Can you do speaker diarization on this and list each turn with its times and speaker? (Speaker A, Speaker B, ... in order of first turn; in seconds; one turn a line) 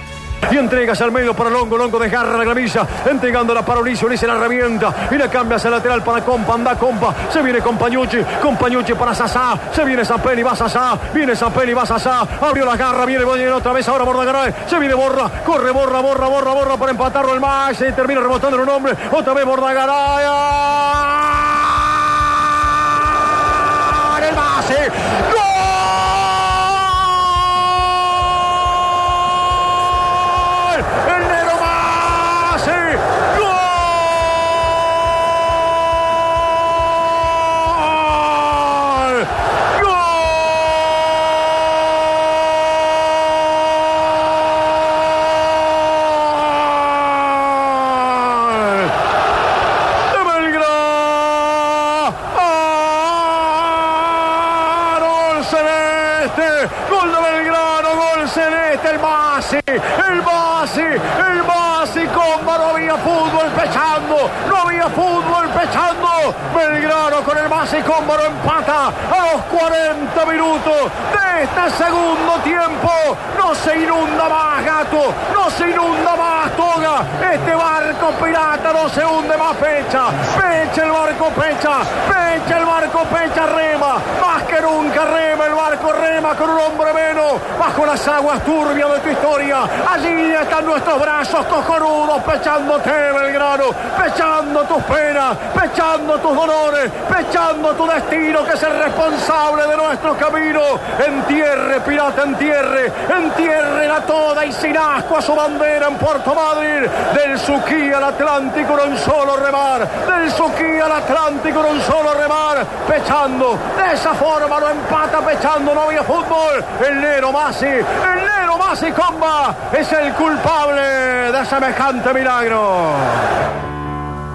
Speaker A: 0.5-28.8
Speaker A: 30.1-34.8
Speaker A: 37.1-40.9
Speaker A: 46.2-48.9
Speaker A: 50.1-123.3